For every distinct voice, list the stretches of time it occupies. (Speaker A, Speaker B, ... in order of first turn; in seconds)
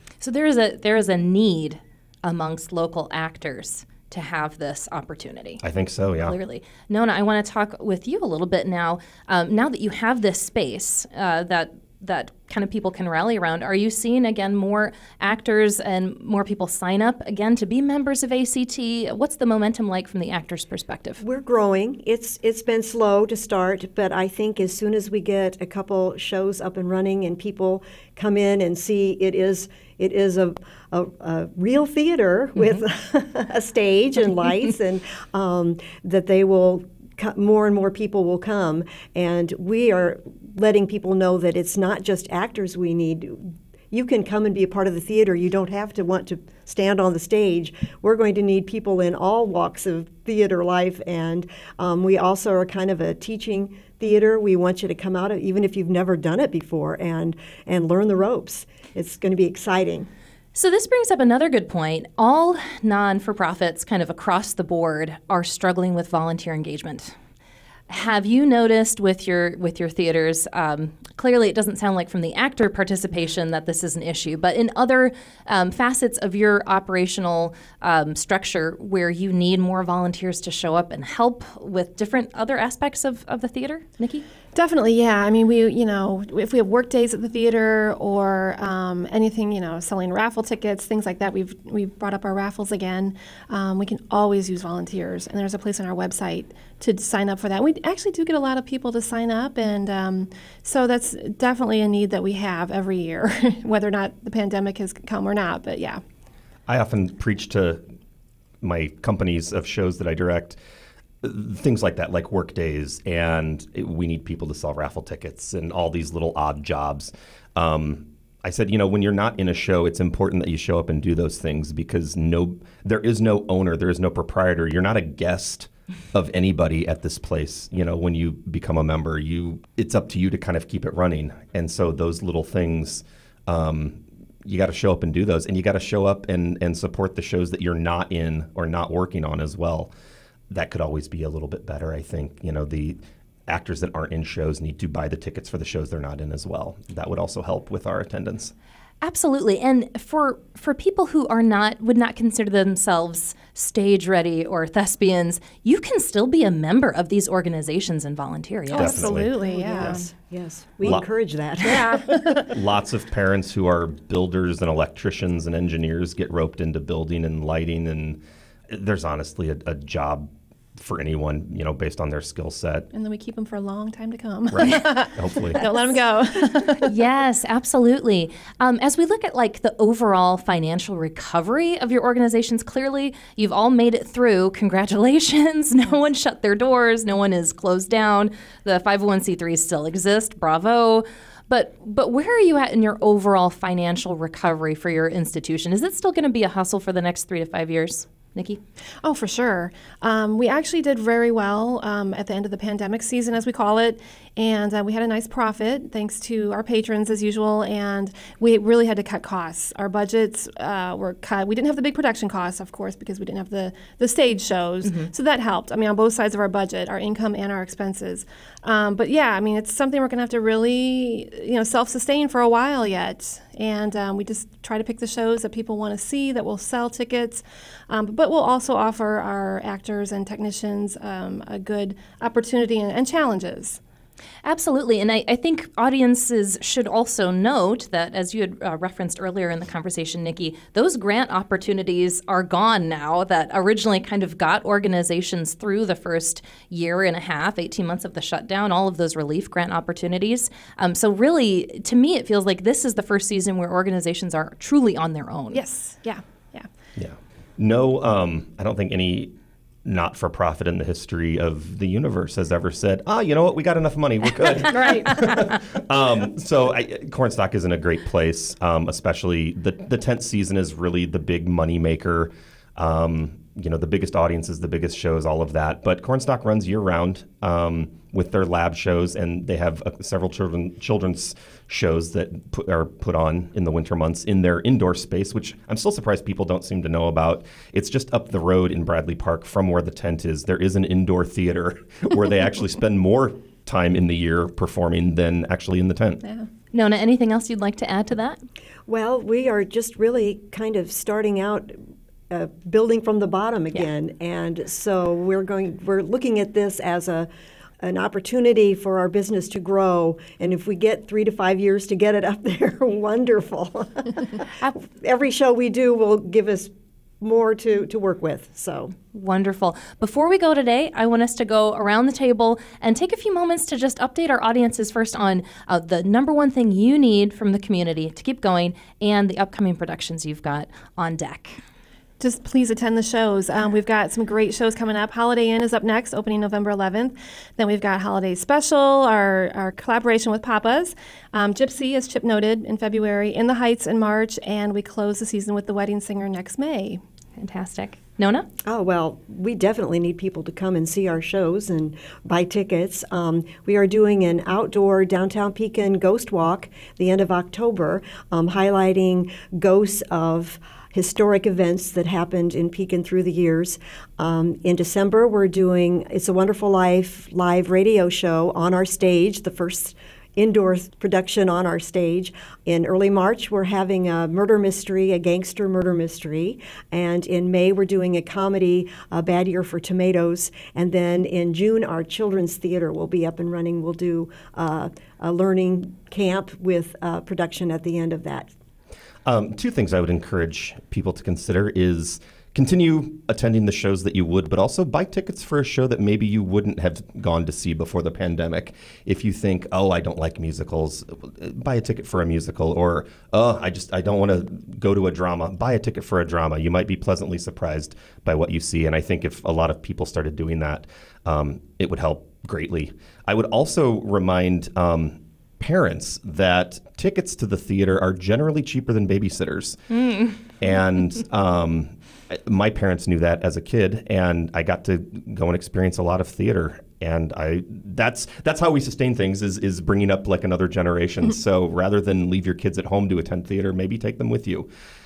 Speaker A: 0.2-5.6, 6.2-21.2, 60.5-67.1, 67.9-84.2, 149.0-159.1, 176.8-198.6, 234.4-255.6, 296.7-298.4, 319.1-331.6, 347.4-348.5
Speaker B: 5.6-6.3, 106.7-107.8, 108.6-110.6, 111.2-139.9, 140.5-148.5, 158.7-159.9, 162.4-172.9, 174.5-175.7, 257.0-259.3, 259.8-296.2, 389.2-419.9, 420.6-434.7
Speaker C: 21.2-60.1, 159.4-162.2, 298.9-301.8, 302.3-307.3, 307.8-318.9, 348.6-388.5
Speaker D: 84.5-106.0, 158.7-160.1, 161.6-162.5, 172.9-176.9, 199.0-233.8, 255.5-256.7, 264.6-265.4, 332.2-347.0